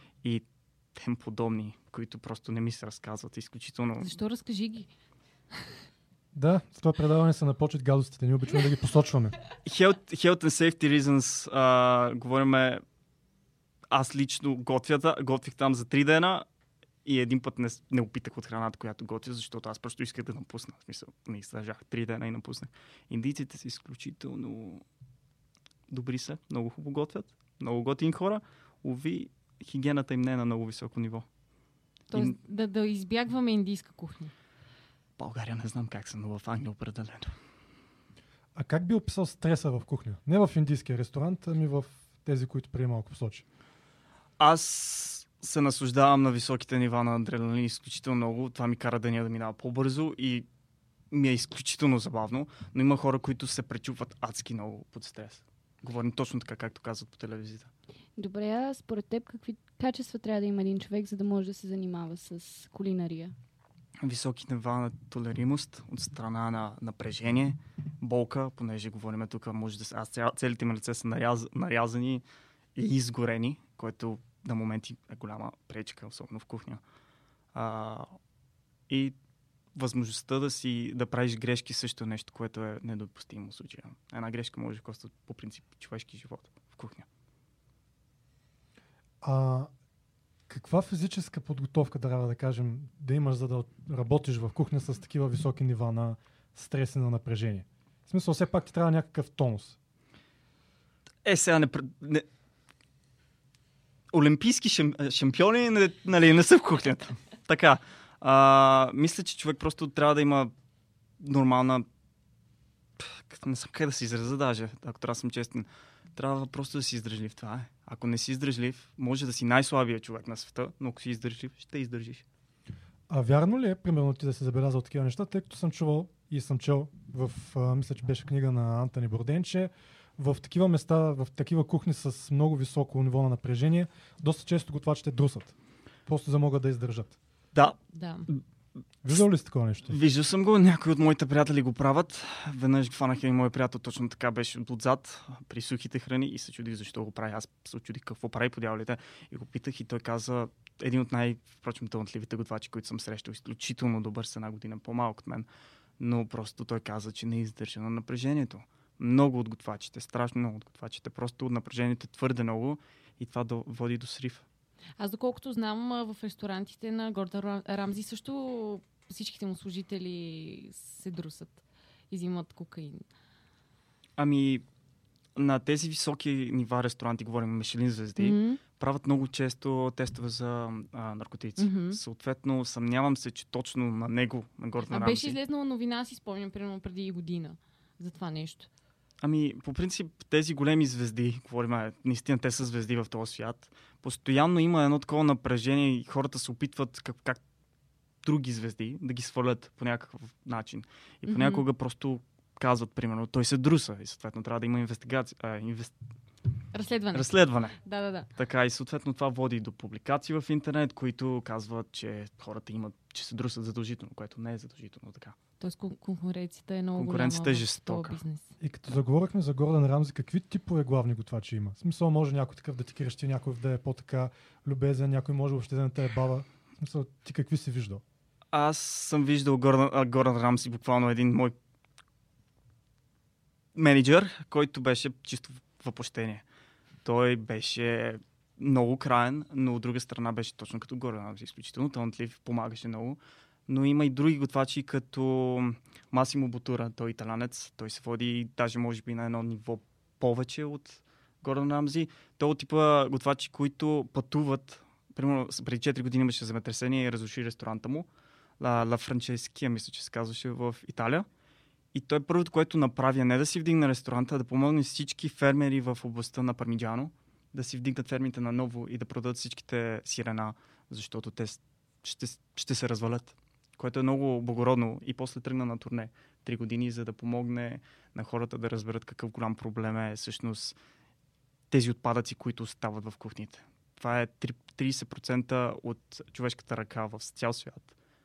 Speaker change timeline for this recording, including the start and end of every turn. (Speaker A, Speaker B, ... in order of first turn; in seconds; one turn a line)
Speaker A: 0.2-4.1
Speaker B: 4.0-4.9
Speaker C: 6.3-9.3
Speaker A: 9.6-12.8
Speaker A: 13.9-16.5
Speaker A: 17.1-24.8
Speaker A: 25.9-31.3
Speaker A: 32.1-32.4
Speaker B: 32.1-34.3
Speaker A: 35.2-37.4
Speaker C: 38.5-43.4
Speaker A: 44.4-50.5
Speaker A: 51.1-57.7
Speaker D: 58.2-63.4
Speaker A: 64.0-72.2
Speaker A: 72.8-76.8
Speaker A: 77.5-78.2
Speaker A: 78.9-79.2
Speaker A: 79.8-87.1
Speaker C: 89.2-89.7
Speaker C: 90.5-99.8
Speaker A: 101.2-102.3
Speaker A: 104.1-110.5
Speaker A: 111.2-111.9
Speaker A: 113.0-122.2
Speaker C: 123.1-135.5
Speaker C: 136.1-137.2
Speaker A: 137.5-138.4
Speaker B: 137.9-138.3
Speaker C: 139.0-139.9
Speaker A: 139.9-155.5
Speaker A: 156.0-164.4
Speaker B: 165.0-173.1
Speaker A: 174.2-174.7
Speaker A: 175.4-185.4
Speaker B: 178.2-178.6
Speaker B: 181.6-182.0
Speaker B: 184.9-188.7
Speaker A: 189.2-197.4
Speaker A: 198.2-205.9
Speaker B: 201.3-201.7
Speaker B: 206.7-208.3
Speaker A: 207.1-207.8
Speaker A: 208.4-215.4
Speaker B: 215.6-218.5
Speaker A: 217.0-218.2
Speaker C: 218.6-228.0
Speaker A: 228.5-231.6
Speaker A: 233.8-236.4
Speaker A: 237.0-258.1
Speaker A: 258.6-261.3
Speaker A: 261.9-280.8
Speaker A: 281.7-287.9